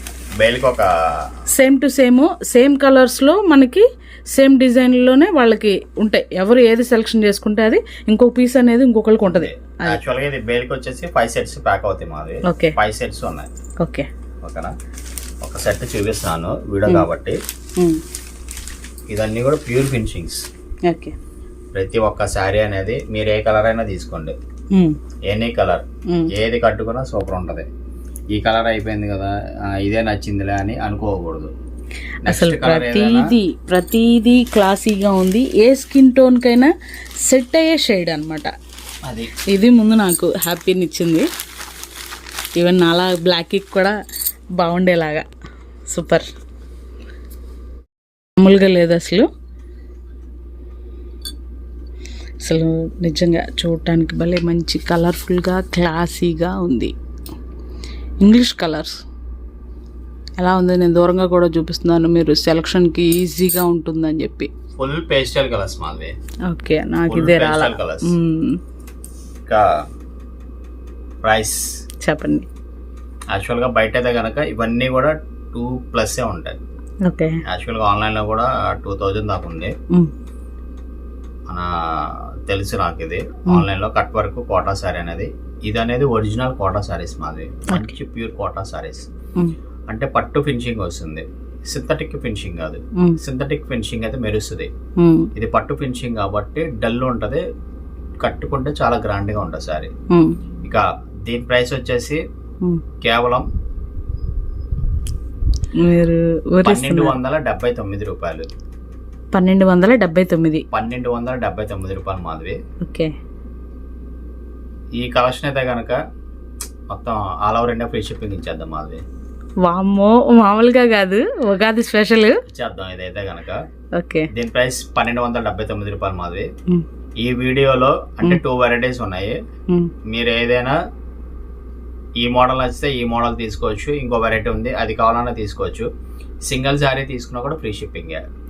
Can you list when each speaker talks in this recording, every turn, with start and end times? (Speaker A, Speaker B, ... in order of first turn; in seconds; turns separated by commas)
Speaker A: 0.4-1.3, Speaker B: 1.5-10.0, Speaker A: 9.2-13.5, Speaker B: 12.4-12.8, Speaker B: 13.8-14.1, Speaker A: 14.4-14.7, Speaker A: 15.4-17.4, Speaker A: 19.1-20.4, Speaker B: 20.9-21.1, Speaker A: 21.7-24.4, Speaker A: 25.3-27.7, Speaker A: 28.3-31.5, Speaker A: 32.2-33.4, Speaker B: 32.2-38.5, Speaker A: 39.0-39.3, Speaker B: 39.5-41.3, Speaker B: 42.5-44.0, Speaker B: 44.5-45.2, Speaker B: 45.9-46.2, Speaker B: 48.4-49.3, Speaker B: 52.4-56.9, Speaker B: 58.2-59.0, Speaker B: 60.4-64.5, Speaker A: 64.8-66.2, Speaker B: 66.5-68.6, Speaker A: 67.1-68.1, Speaker A: 71.2-71.8, Speaker B: 72.0-72.5, Speaker A: 73.3-76.6, Speaker B: 77.0-77.4, Speaker A: 77.5-79.7, Speaker A: 81.5-89.1, Speaker B: 87.7-87.9, Speaker A: 89.9-94.7, Speaker B: 95.0-95.3, Speaker A: 95.3-97.4, Speaker A: 98.2-99.9, Speaker B: 100.1-100.4, Speaker A: 100.6-102.2, Speaker A: 103.0-103.5, Speaker B: 105.7-107.1, Speaker A: 106.6-108.5, Speaker B: 109.3-110.7, Speaker A: 110.7-112.6, Speaker B: 112.8-113.1, Speaker A: 115.0-116.0, Speaker A: 116.9-119.0, Speaker B: 119.6-122.4, Speaker A: 122.5-123.6, Speaker B: 124.0-124.3, Speaker A: 124.3-126.5, Speaker A: 127.2-129.4, Speaker A: 130.0-130.8, Speaker A: 132.2-135.9, Speaker A: 136.4-138.2